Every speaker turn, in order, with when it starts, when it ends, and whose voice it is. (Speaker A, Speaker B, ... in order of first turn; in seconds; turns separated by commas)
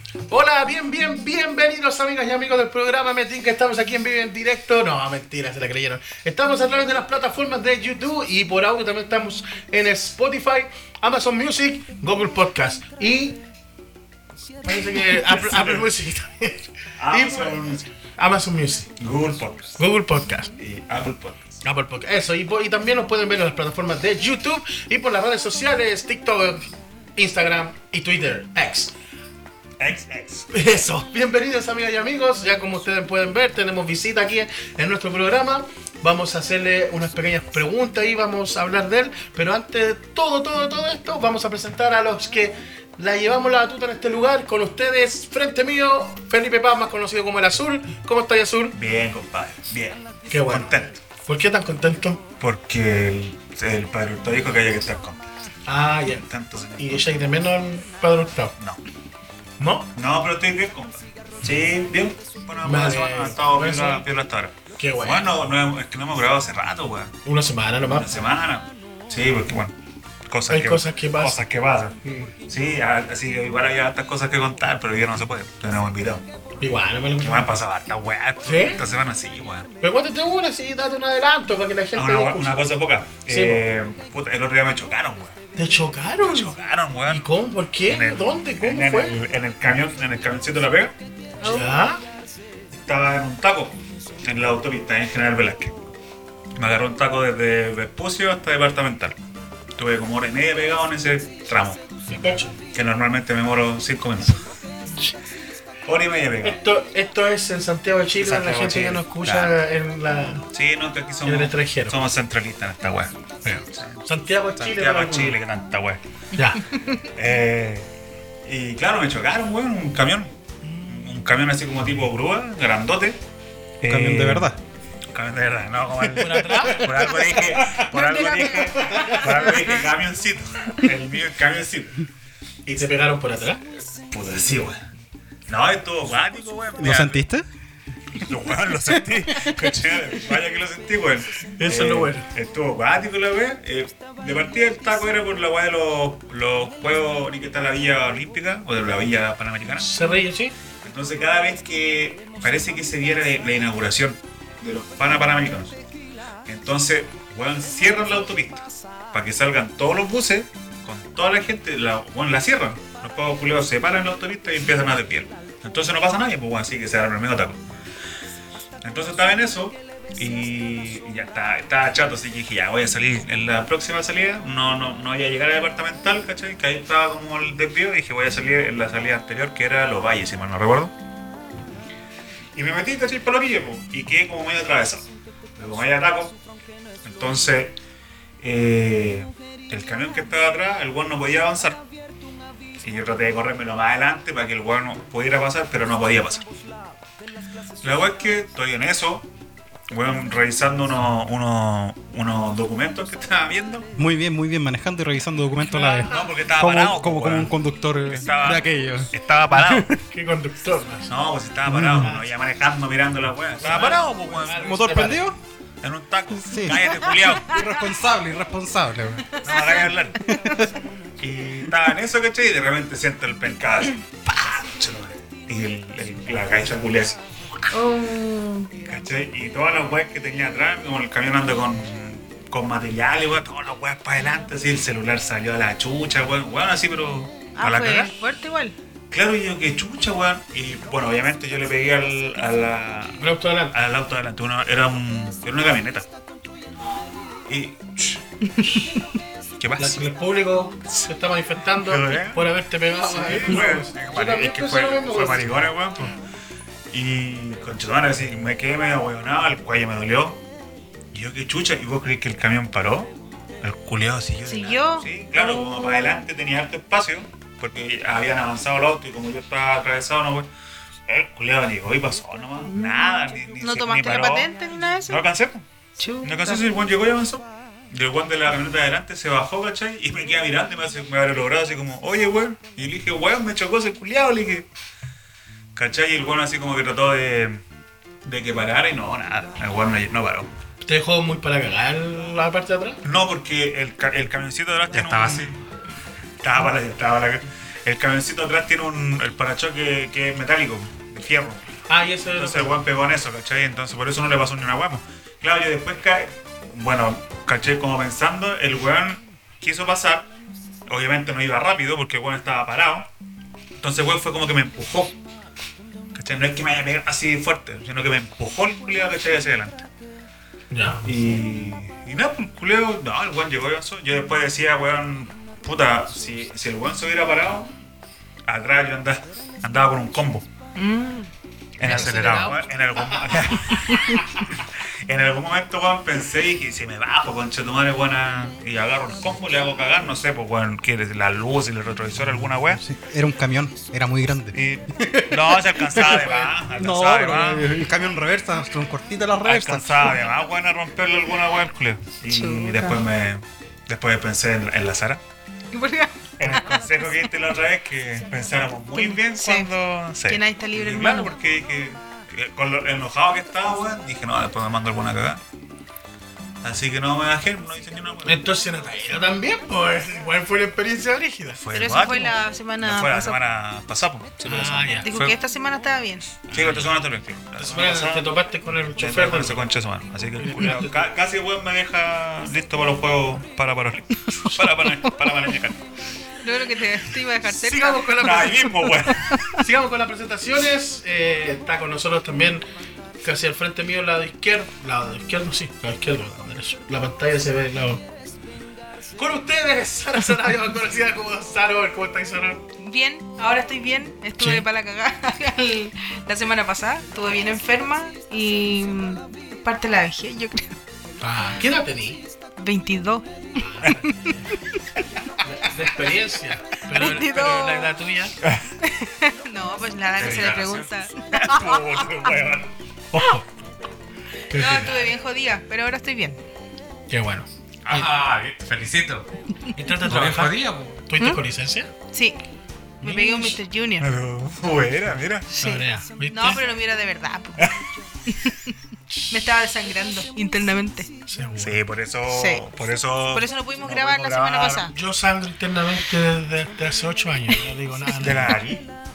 Speaker A: 0.3-13.4, Speaker A: 14.6-17.6, Speaker B: 15.1-15.8, Speaker B: 17.0-17.9, Speaker A: 18.2-18.9, Speaker B: 19.0-19.8, Speaker A: 19.8-20.5, Speaker B: 20.6-21.5, Speaker A: 21.6-28.9, Speaker B: 29.8-30.5, Speaker A: 30.5-48.8, Speaker B: 48.7-51.0, Speaker A: 50.3-50.7, Speaker A: 51.2-52.2, Speaker B: 52.4-55.2, Speaker A: 55.7-58.5, Speaker B: 56.3-57.2, Speaker A: 59.6-59.9, Speaker B: 59.9-67.2, Speaker A: 62.6-64.0, Speaker A: 64.8-65.3, Speaker A: 67.2-68.2, Speaker B: 67.9-69.7, Speaker B: 70.3-76.3, Speaker A: 70.5-71.4, Speaker A: 72.0-72.3, Speaker A: 76.6-77.5, Speaker B: 77.2-79.7, Speaker A: 78.4-78.8, Speaker A: 79.8-82.6, Speaker B: 81.9-85.3, Speaker A: 83.2-83.7, Speaker A: 85.5-86.5, Speaker B: 86.2-87.3, Speaker A: 87.1-89.2, Speaker B: 87.9-90.9, Speaker A: 91.4-92.0, Speaker C: 91.4-91.8, Speaker B: 92.7-95.7, Speaker B: 96.6-99.2, Speaker B: 99.8-101.8, Speaker A: 102.1-102.5, Speaker B: 102.7-104.4, Speaker B: 105.8-106.6, Speaker A: 106.4-110.4, Speaker B: 108.2-109.6, Speaker B: 110.5-113.1, Speaker A: 111.2-112.0, Speaker A: 113.4-115.4, Speaker B: 113.7-116.0, Speaker A: 116.3-116.6, Speaker C: 116.7-117.0, Speaker B: 117.2-117.9, Speaker B: 118.4-120.3, Speaker A: 120.6-121.0, Speaker B: 120.9-123.2, Speaker B: 123.8-124.5, Speaker D: 123.8-124.6, Speaker B: 125.1-132.0, Speaker A: 126.2-126.9, Speaker D: 126.9-127.8, Speaker C: 127.9-129.7, Speaker A: 132.7-133.6, Speaker B: 134.1-134.8, Speaker B: 135.5-137.2, Speaker D: 136.8-137.5, Speaker B: 138.2-149.9, Speaker A: 141.6-142.3, Speaker A: 149.8-150.6, Speaker B: 150.8-155.8, Speaker B: 156.5-167.6, Speaker B: 168.8-180.9, Speaker B: 182.6-186.4, Speaker B: 187.0-187.8, Speaker B: 188.4-191.8, Speaker B: 192.8-196.5, Speaker B: 197.8-199.3, Speaker B: 199.9-203.9, Speaker D: 204.0-209.9, Speaker A: 205.8-206.2, Speaker B: 205.9-207.6, Speaker B: 208.1-209.9, Speaker A: 210.1-211.1, Speaker B: 211.1-214.6, Speaker D: 211.7-212.2, Speaker A: 212.0-212.2, Speaker A: 213.6-215.3, Speaker D: 214.5-215.4, Speaker B: 215.8-217.5, Speaker D: 216.4-219.3, Speaker C: 219.4-219.9, Speaker B: 219.4-220.3, Speaker D: 220.2-220.7, Speaker B: 221.2-227.2, Speaker C: 227.7-228.9, Speaker B: 228.8-238.1, Speaker C: 237.6-238.8, Speaker B: 239.1-246.1, Speaker A: 243.2-243.8, Speaker B: 247.5-248.2, Speaker C: 248.6-249.0, Speaker B: 249.6-250.1, Speaker A: 249.8-255.6, Speaker B: 251.8-256.1, Speaker B: 256.9-260.4, Speaker B: 261.1-270.5, Speaker C: 264.4-266.1, Speaker B: 271.1-275.6, Speaker C: 272.7-275.2, Speaker C: 276.0-276.7, Speaker B: 276.2-284.6, Speaker B: 285.8-287.6, Speaker B: 288.2-290.5, Speaker A: 290.8-293.0, Speaker B: 293.0-295.5, Speaker E: 294.9-295.6, Speaker B: 296.4-301.6, Speaker A: 301.9-302.8, Speaker B: 302.4-310.3, Speaker B: 310.9-313.1, Speaker B: 313.8-315.2, Speaker B: 316.1-319.9, Speaker A: 320.7-321.1, Speaker B: 321.0-327.7, Speaker B: 328.5-330.5, Speaker C: 330.8-331.3, Speaker B: 331.8-342.8, Speaker A: 331.8-333.8, Speaker E: 331.8-332.5, Speaker C: 333.9-334.2, Speaker D: 342.4-350.2, Speaker B: 344.5-347.8, Speaker A: 345.9-346.5, Speaker B: 349.4-355.2, Speaker C: 352.3-353.0, Speaker C: 355.7-356.8, Speaker B: 356.4-365.4, Speaker C: 358.9-359.7, Speaker C: 360.3-361.3, Speaker B: 366.6-368.5, Speaker A: 368.2-371.6, Speaker B: 371.6-375.4, Speaker C: 371.7-373.4, Speaker A: 374.4-375.1, Speaker C: 375.0-376.4, Speaker A: 376.5-377.0, Speaker B: 376.5-378.4, Speaker A: 377.6-379.7, Speaker B: 379.0-385.8, Speaker A: 380.4-381.1, Speaker C: 386.4-389.5, Speaker A: 387.4-388.9, Speaker B: 388.2-389.4, Speaker A: 389.5-392.7, Speaker A: 393.2-398.0, Speaker A: 399.2-402.6, Speaker C: 402.8-410.8, Speaker A: 404.4-404.6, Speaker A: 411.2-412.2, Speaker C: 412.6-414.5, Speaker A: 413.6-414.1, Speaker A: 415.4-418.4, Speaker C: 416.9-417.9, Speaker B: 418.4-418.7, Speaker C: 418.8-422.4, Speaker E: 420.1-420.9, Speaker B: 421.3-423.4, Speaker A: 424.5-425.1, Speaker C: 424.5-426.4, Speaker A: 427.1-428.1, Speaker E: 427.8-429.3, Speaker A: 429.8-431.9, Speaker E: 430.0-431.0, Speaker C: 432.1-432.4, Speaker A: 433.0-433.6, Speaker C: 433.0-434.1, Speaker B: 434.0-435.5, Speaker C: 435.5-437.7, Speaker A: 435.6-436.6, Speaker C: 438.3-438.7, Speaker C: 439.3-441.1, Speaker A: 441.2-441.8, Speaker B: 441.6-444.9, Speaker C: 442.3-442.6, Speaker C: 443.3-444.9, Speaker A: 444.9-448.6, Speaker B: 448.2-448.9